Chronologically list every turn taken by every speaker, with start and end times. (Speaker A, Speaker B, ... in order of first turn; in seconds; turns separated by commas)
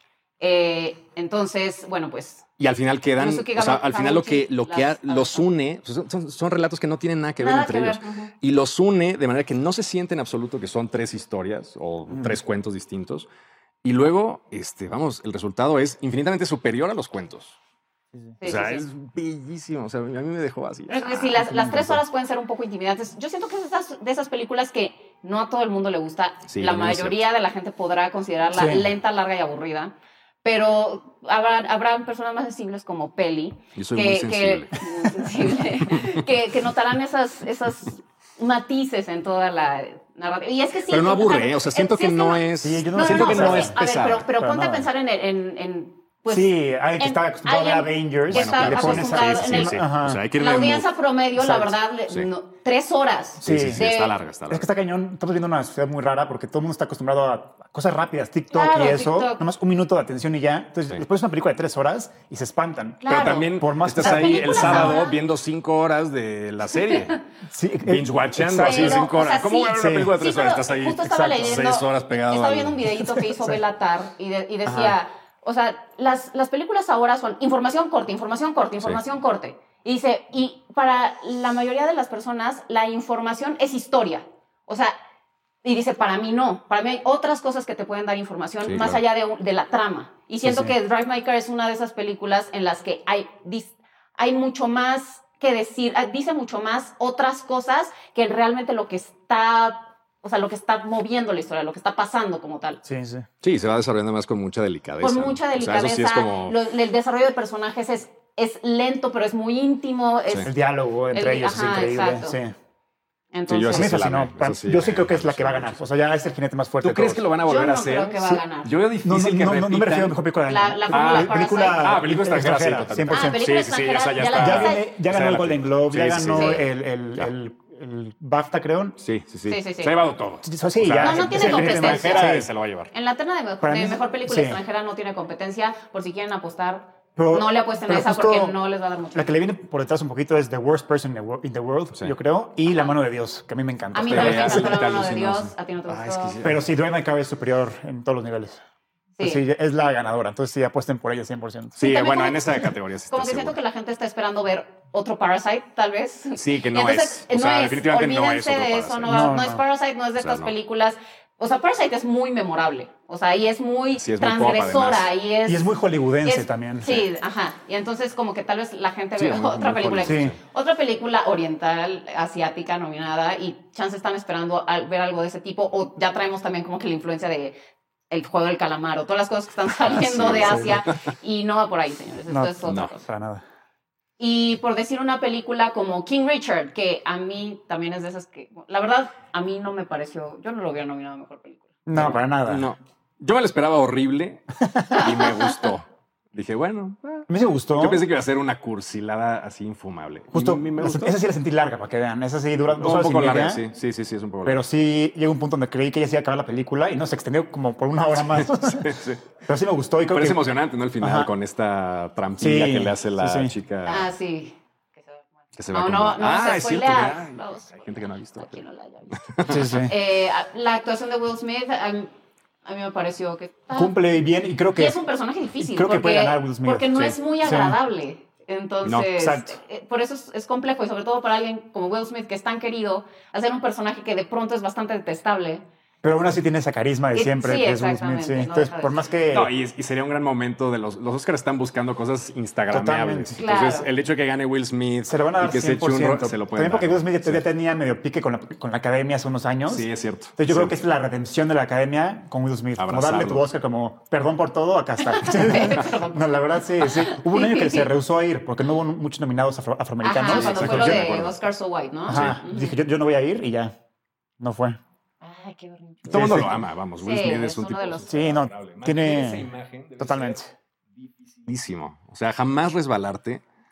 Speaker A: 0.4-2.5, Speaker B: 2.6-13.3, Speaker A: 3.2-5.5, Speaker A: 7.4-8.3, Speaker C: 12.1-12.4, Speaker B: 13.8-17.6, Speaker A: 18.4-18.8, Speaker B: 18.4-22.0, Speaker A: 20.9-54.1, Speaker C: 21.5-21.9, Speaker B: 26.5-27.2, Speaker C: 28.5-28.9, Speaker B: 33.8-34.8, Speaker B: 40.9-44.3, Speaker C: 42.6-43.8, Speaker C: 44.4-44.9, Speaker C: 46.3-50.2, Speaker B: 48.3-50.9, Speaker C: 51.4-51.7, Speaker C: 53.4-53.9, Speaker B: 53.4-54.7, Speaker C: 54.5-65.0, Speaker A: 58.5-59.5, Speaker A: 63.0-65.2, Speaker B: 63.1-67.2, Speaker C: 67.5-69.1, Speaker B: 67.8-72.9, Speaker A: 68.6-85.0, Speaker C: 69.7-70.1, Speaker C: 71.1-71.6, Speaker C: 73.3-73.6, Speaker B: 74.7-75.0, Speaker A: 85.6-102.8, Speaker B: 88.6-89.0, Speaker C: 90.4-90.7, Speaker C: 102.8-103.3, Speaker B: 103.4-106.6, Speaker A: 105.0-110.5, Speaker C: 110.4-112.5, Speaker A: 111.1-112.4, Speaker A: 113.3-113.9, Speaker B: 113.5-115.8, Speaker C: 113.7-117.2, Speaker B: 116.8-120.2, Speaker A: 117.5-118.7, Speaker C: 119.0-123.4, Speaker A: 120.5-121.9, Speaker B: 120.9-126.7, Speaker A: 123.1-124.8, Speaker C: 124.3-129.0, Speaker A: 126.3-126.6, Speaker B: 129.0-132.9, Speaker A: 129.5-129.9, Speaker C: 130.4-132.5, Speaker A: 131.0-132.4, Speaker A: 132.9-139.3, Speaker C: 133.6-134.6, Speaker C: 137.2-138.6, Speaker C: 139.2-144.8, Speaker A: 143.9-146.4, Speaker B: 144.1-146.6, Speaker C: 146.4-148.6, Speaker A: 149.2-149.4, Speaker C: 149.2-151.8, Speaker B: 151.8-153.6, Speaker A: 151.8-165.7, Speaker B: 156.4-159.2, Speaker C: 159.1-159.6, Speaker B: 160.2-160.5, Speaker B: 164.0-165.1, Speaker C: 165.5-167.1, Speaker A: 166.2-177.6, Speaker B: 169.2-170.4, Speaker C: 170.1-170.4, Speaker A: 178.1-183.0, Speaker B: 179.8-181.0, Speaker C: 180.4-180.7, Speaker C: 182.3-183.4, Speaker B: 182.7-182.9, Speaker A: 184.2-191.7, Speaker C: 191.9-192.7, Speaker B: 191.9-201.2, Speaker C: 194.7-195.0, Speaker A: 195.0-195.5, Speaker C: 197.3-198.1, Speaker C: 200.3-203.7, Speaker B: 202.7-204.6, Speaker C: 204.4-210.4, Speaker B: 208.3-209.2, Speaker B: 210.1-214.1, Speaker C: 211.0-211.3, Speaker C: 212.4-213.5, Speaker A: 213.9-217.9, Speaker B: 215.6-218.6, Speaker A: 218.4-222.1, Speaker B: 219.2-219.7, Speaker C: 219.5-220.0, Speaker A: 222.7-223.9, Speaker C: 223.7-225.0, Speaker A: 224.8-235.7, Speaker C: 225.6-227.8, Speaker B: 228.8-229.1, Speaker C: 229.1-229.6, Speaker C: 236.0-239.5, Speaker A: 237.1-239.0, Speaker B: 239.3-247.4, Speaker C: 242.7-243.4, Speaker A: 243.4-243.9, Speaker C: 245.1-261.2, Speaker B: 249.7-250.7, Speaker B: 252.8-253.4, Speaker A: 255.0-257.9, Speaker A: 260.0-262.8, Speaker B: 260.2-261.4, Speaker C: 262.1-263.7, Speaker B: 262.1-262.4, Speaker C: 264.4-264.8, Speaker A: 265.2-266.5, Speaker B: 266.1-270.4, Speaker C: 266.1-266.6, Speaker A: 267.0-268.1, Speaker C: 268.1-270.5, Speaker B: 271.0-273.4